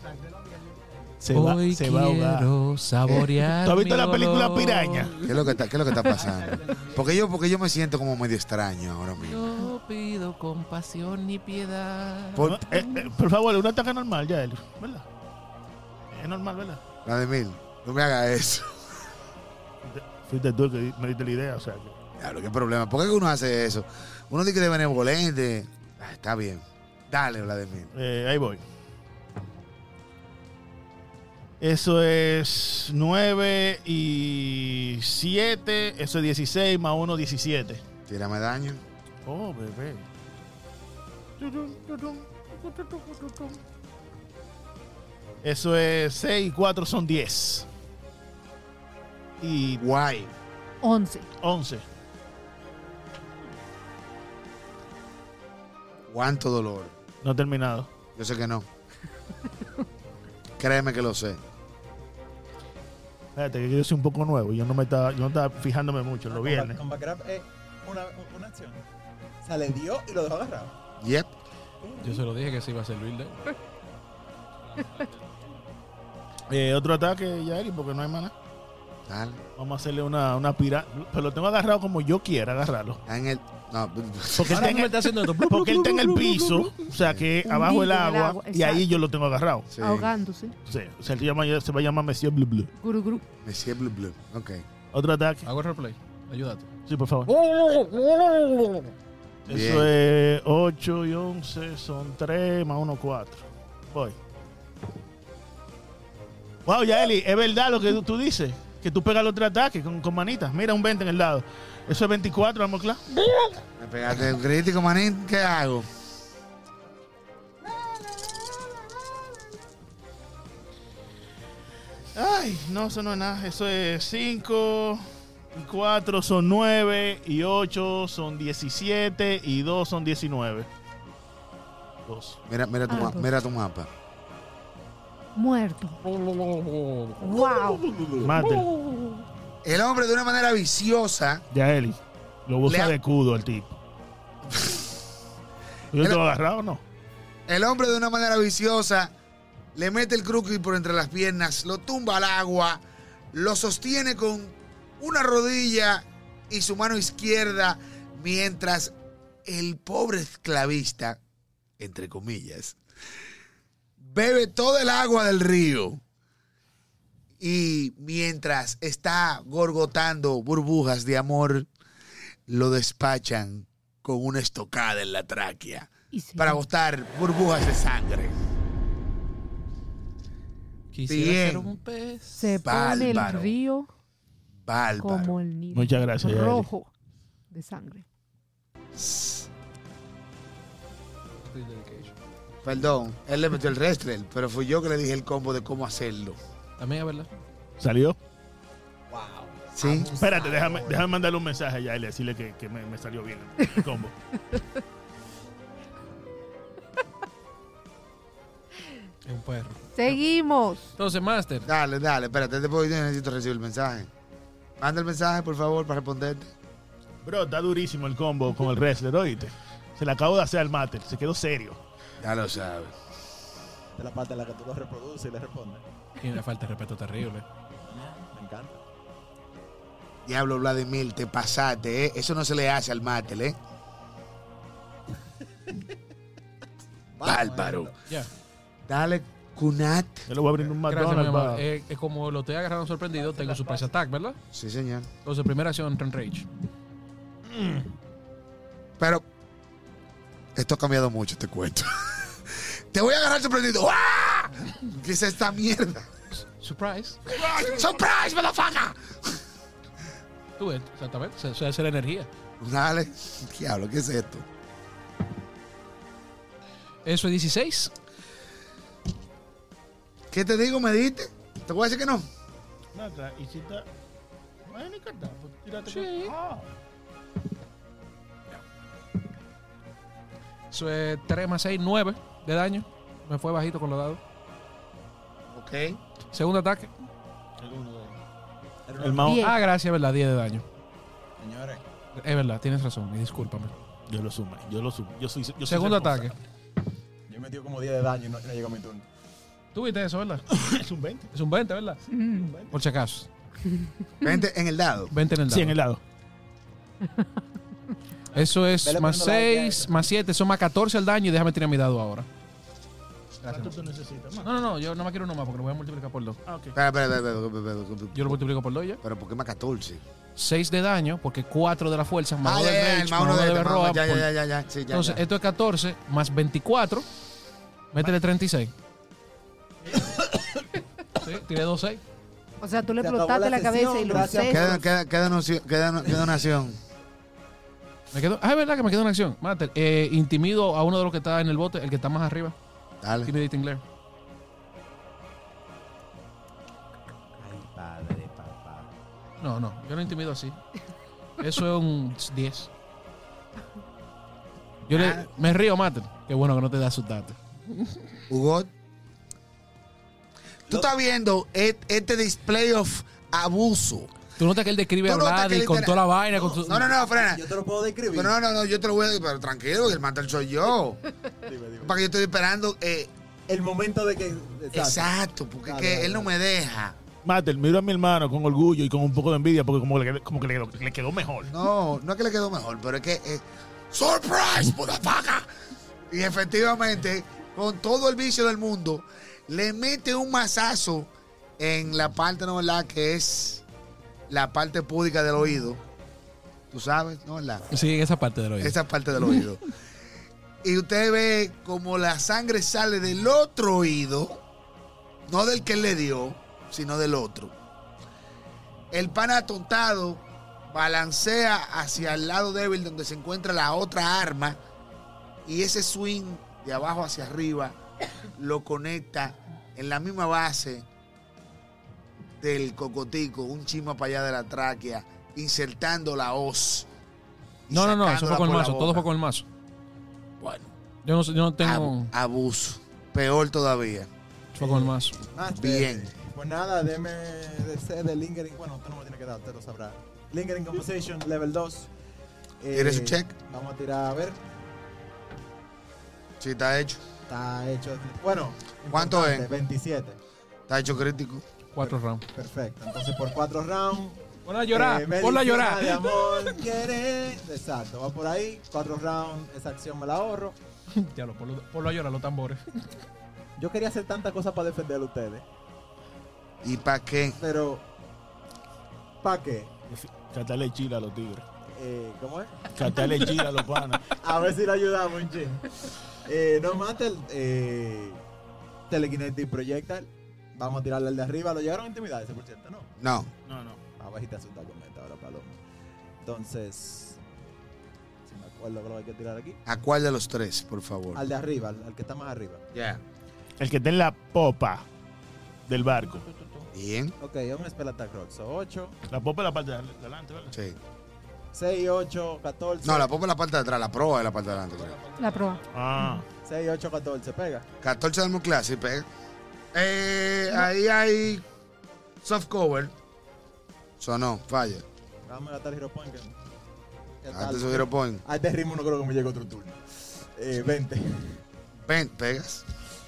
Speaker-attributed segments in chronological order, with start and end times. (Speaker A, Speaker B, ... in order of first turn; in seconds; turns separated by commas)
Speaker A: 1.2-2.5, Speaker B: 1.3-5.5, Speaker A: 3.4-5.2, Speaker C: 5.2-9.6, Speaker B: 9.2-13.1, Speaker C: 12.4-12.6, Speaker A: 12.4-15.1, Speaker A: 16.1-16.8, Speaker C: 17.0-18.7, Speaker A: 19.8-21.9, Speaker C: 22.2-27.9, Speaker A: 27.9-28.6, Speaker A: 31.6-37.8, Speaker C: 38.1-38.8, Speaker A: 39.2-40.0, Speaker A: 41.4-43.5, Speaker A: 45.4-47.7, Speaker A: 49.4-49.8, Speaker C: 49.8-50.3, Speaker D: 50.8-51.3, Speaker A: 51.4-51.8, Speaker C: 56.1-56.9, Speaker A: 57.2-57.9, Speaker C: 58.1-58.7, Speaker C: 60.6-61.4, Speaker A: 63.3-66.8, Speaker E: 66.3-68.8, Speaker E: 69.4-70.7, Speaker C: 71.0-71.3, Speaker E: 71.8-72.2, Speaker B: 72.0-73.5, Speaker A: 76.5-78.3, Speaker C: 79.0-79.4, Speaker A: 79.6-83.0, Speaker C: 83.1-84.7, Speaker A: 84.3-89.7, Speaker B: 84.5-86.8, Speaker C: 87.0-87.2, Speaker D: 87.4-89.0, Speaker C: 89.7-90.1, Speaker D: 89.8-90.5, Speaker A: 90.7-92.7, Speaker D: 92.8-93.2, Speaker C: 93.4-94.6, Speaker A: 94.9-95.5, Speaker B: 95.4-96.7, Speaker A: 96.8-97.3, Speaker B: 97.5-98.8, Speaker A: 99.5-104.2, Speaker C: 99.5-99.9, Speaker A: 106.7-113.0, Speaker C: 113.8-115.9, Speaker A: 122.1-130.7, Speaker A: 132.0-132.4, Speaker C: 132.5-133.9, Speaker D: 132.9-133.3, Speaker D: 135.3-136.0, Speaker B: 136.3-137.2, Speaker D: 137.2-138.0, Speaker A: 138.1-138.8, Speaker C: 139.6-141.4, Speaker A: 141.5-143.8, Speaker C: 142.7-142.9, Speaker C: 144.5-144.9, Speaker A: 145.9-146.8, Speaker C: 147.5-149.1, Speaker C: 149.7-152.8, Speaker C: 153.3-158.9, Speaker C: 159.4-161.2, Speaker C: 161.8-162.8, Speaker C: 164.0-166.0, Speaker C: 167.4-171.7, Speaker C: 172.5-178.3, Speaker D: 176.1-176.6, Speaker B: 180.9-182.6, Speaker C: 181.1-181.7, Speaker D: 182.4-183.9, Speaker C: 182.6-183.5, Speaker C: 184.7-185.3, Speaker D: 185.0-186.9, Speaker A: 185.7-186.7, Speaker D: 187.5-188.0, Speaker C: 188.9-189.5, Speaker B: 191.4-192.1, Speaker C: 192.6-196.4, Speaker B: 196.8-197.3, Speaker A: 197.8-198.2, Speaker E: 199.1-201.1, Speaker C: 199.7-200.1, Speaker A: 200.1-204.1, Speaker B: 209.2-210.2, Speaker D: 209.9-210.9, Speaker B: 210.9-211.7, Speaker C: 211.6-214.1, Speaker C: 214.8-216.5, Speaker A: 217.2-221.8, Speaker C: 222.2-222.9, Speaker E: 223.9-225.8, Speaker B: 226.2-227.4, Speaker E: 227.8-228.8, Speaker C: 230.2-233.6, Speaker E: 237.2-237.9, Speaker C: 237.2-237.9, Speaker C: 238.9-240.3, Speaker A: 240.3-241.6, Speaker B: 240.9-244.4, Speaker C: 244.5-245.1, Speaker B: 245.2-246.5, Speaker C: 249.0-249.2, Speaker C: 250.5-256.1, Speaker B: 256.6-257.2, Speaker C: 257.3-259.4, Speaker B: 260.6-262.3, Speaker C: 262.6-264.4, Speaker B: 267.0-267.9, Speaker C: 270.3-272.3, Speaker A: 272.9-273.9, Speaker A: 274.6-276.7, Speaker B: 275.9-276.3, Speaker B: 280.7-284.2, Speaker C: 285.5-286.0, Speaker B: 286.3-286.9, Speaker A: 287.6-288.2, Speaker E: 288.9-289.4, Speaker A: 289.0-289.5, Speaker D: 289.2-289.6, Speaker B: 289.2-290.6, Speaker E: 291.4-291.8, Speaker B: 292.1-293.7, Speaker A: 294.1-296.4, Speaker B: 295.6-296.4, Speaker E: 297.3-299.1, Speaker B: 299.7-300.5, Speaker A: 300.5-301.3, Speaker B: 301.3-302.1, Speaker D: 302.1-302.5, Speaker B: 302.7-303.3, Speaker C: 304.2-305.1, Speaker B: 305.1-305.8, Speaker A: 305.5-306.0, Speaker B: 308.3-312.3, Speaker E: 308.8-309.9, Speaker B: 313.4-313.7, Speaker A: 313.4-314.5, Speaker B: 314.4-316.4, Speaker A: 316.4-316.8, Speaker C: 316.7-318.4, Speaker B: 318.1-319.0, Speaker C: 319.0-320.0, Speaker B: 320.4-324.3, Speaker C: 322.4-325.2, Speaker B: 324.9-327.1, Speaker B: 327.9-328.7, Speaker B: 331.1-332.0, Speaker D: 332.6-334.6, Speaker E: 333.0-334.9, Speaker C: 334.4-336.8, Speaker B: 338.1-342.6, Speaker C: 343.0-343.3, Speaker B: 343.2-343.8, Speaker E: 347.4-348.9, Speaker B: 349.4-350.6, Speaker B: 351.4-352.7, Speaker B: 354.9-358.2, Speaker C: 354.9-355.3, Speaker C: 358.3-358.7, Speaker C: 360.7-364.1, Speaker B: 364.4-366.9, Speaker C: 365.0-367.4, Speaker E: 366.9-368.3, Speaker C: 368.1-371.0, Speaker E: 371.4-372.0, Speaker C: 371.8-373.1, Speaker E: 373.5-375.1, Speaker C: 374.7-376.9, Speaker E: 375.6-376.3, Speaker A: 377.2-381.5, Speaker C: 381.5-385.5, Speaker C: 386.1-393.6, Speaker C: 394.3-395.8, Speaker C: 396.7-397.8, Speaker B: 397.7-399.4, Speaker C: 398.6-399.6, Speaker C: 400.6-404.4, Speaker C: 405.3-407.5, Speaker C: 408.9-414.6, Speaker C: 415.4-417.8, Speaker C: 418.3-420.9, Speaker C: 422.4-426.9, Speaker C: 427.7-429.1, Speaker B: 427.7-429.4, Speaker C: 430.4-430.7, Speaker B: 431.0-432.1, Speaker C: 431.6-434.1, Speaker B: 434.5-435.2, Speaker E: 434.6-441.9, Speaker C: 435.6-436.1, Speaker E: 442.6-444.4, Speaker C: 442.7-443.3, Speaker C: 446.4-447.0, Speaker E: 447.3-450.2, Speaker C: 448.9-449.5, Speaker C: 450.7-451.4, Speaker B: 451.7-452.2, Speaker E: 451.8-460.6, Speaker B: 454.4-456.6, Speaker B: 460.9-462.6, Speaker E: 463.6-465.4, Speaker C: 466.6-467.4, Speaker E: 467.4-467.8, Speaker E: 469.2-469.7, Speaker A: 469.9-471.4, Speaker E: 471.7-472.8, Speaker A: 472.7-474.1, Speaker E: 474.1-478.2, Speaker E: 478.9-482.9, Speaker C: 483.0-483.3, Speaker A: 483.4-483.8, Speaker E: 484.0-485.6, Speaker E: 486.2-487.2, Speaker E: 488.2-489.6, Speaker C: 489.6-491.2, Speaker E: 491.1-492.6, Speaker C: 492.7-493.0, Speaker A: 493.6-494.9, Speaker A: 495.7-496.2, Speaker E: 496.3-496.7, Speaker C: 496.7-497.1, Speaker E: 497.2-499.0, Speaker A: 499.1-500.5, Speaker C: 500.5-500.8, Speaker E: 501.5-503.1, Speaker C: 502.8-505.0, Speaker D: 505.2-506.2, Speaker A: 505.7-506.2, Speaker E: 506.4-507.6, Speaker C: 507.8-509.1, Speaker C: 509.7-511.4, Speaker C: 512.2-512.9, Speaker C: 514.0-514.8, Speaker E: 515.3-516.4, Speaker E: 517.2-521.4, Speaker C: 517.3-518.2, Speaker C: 521.8-522.6